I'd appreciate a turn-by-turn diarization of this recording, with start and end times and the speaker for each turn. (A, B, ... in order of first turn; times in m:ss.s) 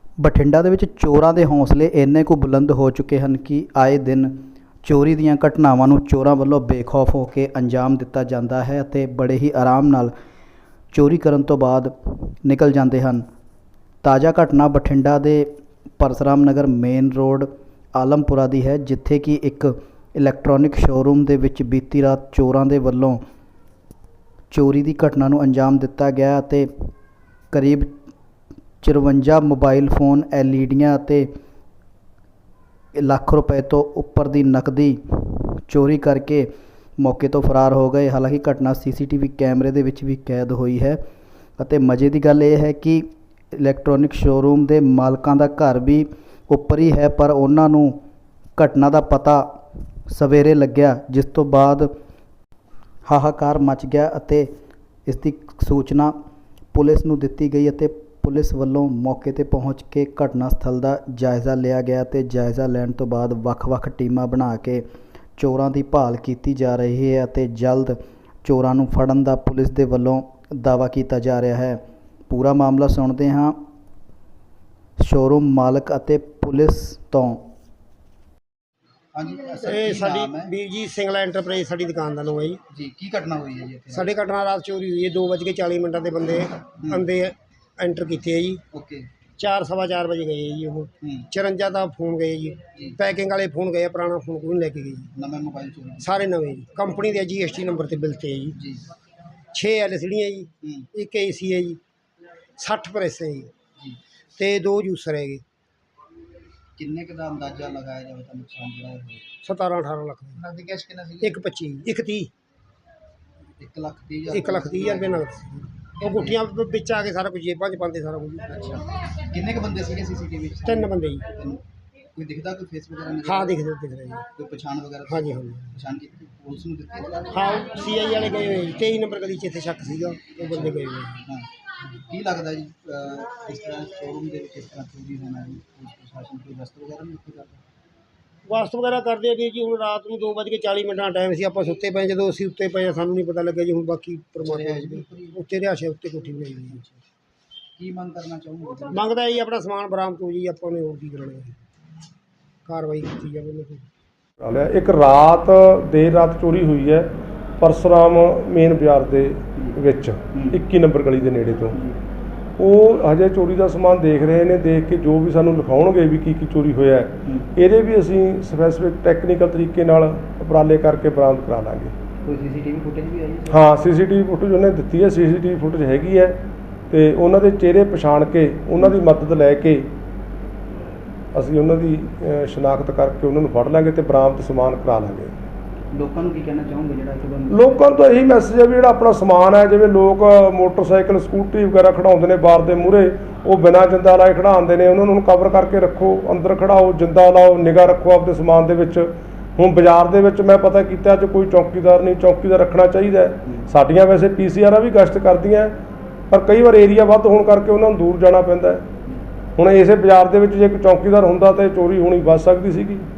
0:00.2-0:10.1 A
0:10.9-0:13.2 A
0:14.0-0:23.2 A
0:24.5-0:26.9 A
0:27.5-0:27.9 A
0:28.8-0:31.3 A
0:32.9-0:41.0 A
0:41.6-0:48.0 A
0:48.6-0:49.5 A
0:50.1-0:51.9 A
0:53.0-0:54.5 A
0:55.0-0:56.1 A
0:56.7-1:04.8 A
1:05.4-1:13.6 A
1:15.0-1:17.4 A
1:19.1-1:20.5 B
1:19.5-1:22.6 C
1:22.7-1:24.1 B
1:23.9-1:28.6 C
1:28.7-1:29.1 B
1:29.4-1:35.1 C
1:32.7-1:33.0 B
1:35.1-1:36.1 B
1:36.0-1:38.6 C
1:38.6-1:38.8 B
1:39.5-1:41.8 C
1:40.6-1:40.9 B
1:42.6-1:43.5 C
1:44.4-1:45.4 C
1:46.8-1:49.3 B
1:49.4-1:50.4 C
1:50.4-1:51.4 B
1:51.2-1:52.3 C
1:53.6-1:55.2 B
1:54.3-1:58.5 C
1:56.1-1:56.4 B
1:58.5-2:01.6 B
2:00.6-2:01.3 C
2:02.1-2:03.5 B
2:03.2-2:04.2 C
2:04.3-2:07.6 B
2:05.1-2:05.8 C
2:07.3-2:11.2 C
2:10.3-2:17.6 B
2:18.4-2:26.8 C
2:24.4-2:25.4 B
2:26.7-2:27.0 B
2:27.8-2:29.0 B
2:28.9-2:31.5 C
2:32.6-2:33.8 C
2:34.4-2:41.8 D
2:42.6-2:51.9 D
2:52.3-2:53.5 B
2:53.5-2:59.9 D
3:01.3-3:05.3 D
3:05.9-3:07.7 B
3:07.5-3:28.8 D
3:29.6-3:33.1 D